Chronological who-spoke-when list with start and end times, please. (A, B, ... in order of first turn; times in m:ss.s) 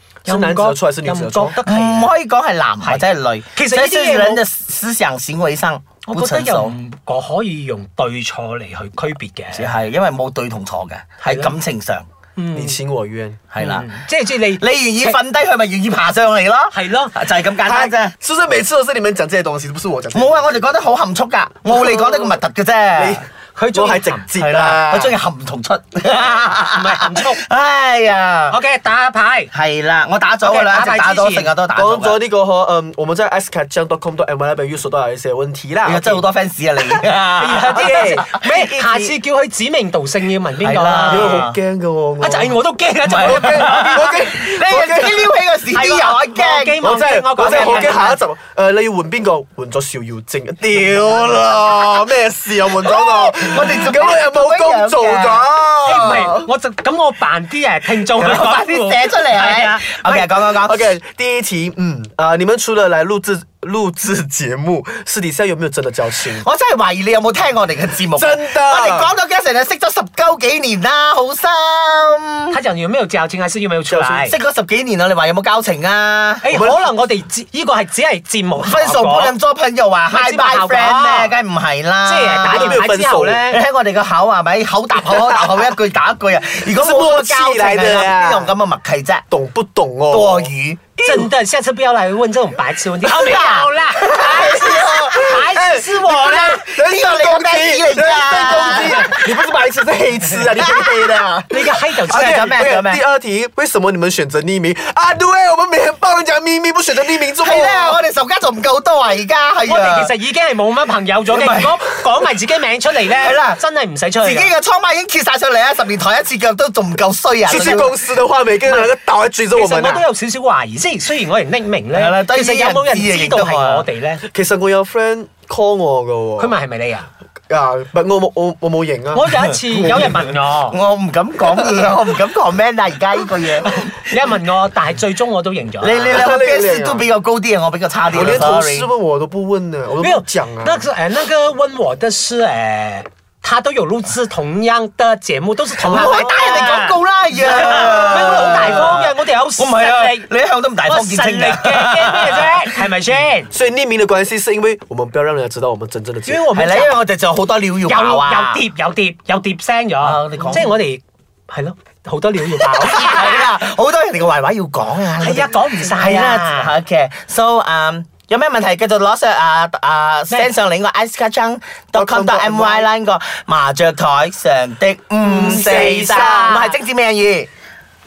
0:00.3-0:01.6 A
0:00.3-0:02.1 B
0:01.6-0:06.8 C
0:02.8-0:04.4 B
0:06.1-0:09.8 B
0:09.5-0:12.1 C
0:11.2-0:11.6 B
0:12.4-0:12.8 B
0:12.5-0:13.4 A
0:13.5-0:13.9 C
0:13.6-0:15.2 B
0:14.6-0:18.2 C
0:16.7-0:17.1 B
0:17.6-0:20.6 A
0:20.1-0:23.2 C
0:21.7-0:22.4 A
0:23.0-0:25.2 A
0:23.6-0:24.3 B
0:24.4-0:28.6 C
0:26.7-0:27.4 B
0:28.5-0:29.5 B
0:29.5-0:32.2 C
0:30.4-0:31.5 B
0:31.8-0:36.2 A
0:35.8-0:38.5 C
0:37.4-0:41.4 B
0:37.6-0:39.2 A
0:40.6-0:41.6 C
0:41.1-0:45.4 A
0:42.2-0:43.7 B
0:43.1-0:46.8 C
0:45.8-0:48.2 B
0:46.8-0:56.4 A
0:47.4-0:48.0 C
0:50.8-0:51.8 C
0:52.8-0:56.4 C
0:55.8-1:00.3 B
0:58.1-1:01.0 C
1:00.6-1:06.5 A
1:06.3-1:12.6 C
1:08.1-1:09.1 A
1:12.5-1:14.4 B
1:13.9-1:14.3 A
1:14.2-1:16.5 C
1:16.4-1:19.4 B
1:16.5-1:16.9 A
1:18.6-1:22.8 C
1:20.1-1:21.3 B
1:22.0-1:23.6 B
1:22.5-1:23.5 A
1:23.5-1:29.3 C
1:25.1-1:25.4 A
1:26.7-1:28.5 A
1:29.3-1:31.3 A
1:30.1-1:30.8 C
1:31.0-1:36.6 B
1:33.0-1:39.5 C
1:34.1-1:35.8 A
1:36.5-1:48.0 A
1:40.6-1:41.3 C
1:41.5-1:42.5 B
1:42.0-1:43.0 C
1:47.3-1:50.1 C
1:49.7-1:54.5 B
1:51.3-1:51.8 C
1:53.1-1:53.6 C
1:54.2-1:57.9 C
1:57.5-2:00.1 A
1:57.5-1:57.8 B
1:59.5-2:04.2 B
2:01.9-2:03.9 C
2:04.2-2:06.6 A
2:06.4-2:07.1 B
2:07.5-2:10.4 A
2:09.1-2:10.8 B
2:09.8-2:14.2 C
2:14.0-2:16.2 B
2:15.8-2:18.9 C
2:16.1-2:17.1 A
2:18.1-2:20.9 A
2:20.0-2:30.3 B
2:25.8-2:32.8 C
2:27.8-2:28.9 A
2:30.8-2:33.5 B
2:33.5-2:36.5 A
2:36.2-2:37.0 B
2:36.5-2:38.6 C
2:37.9-2:43.5 B
2:40.0-2:40.8 C
2:42.6-2:57.5 C
2:45.2-2:46.7 B
2:52.0-2:52.9 A
2:55.2-2:56.7 A
2:55.5-2:56.7 B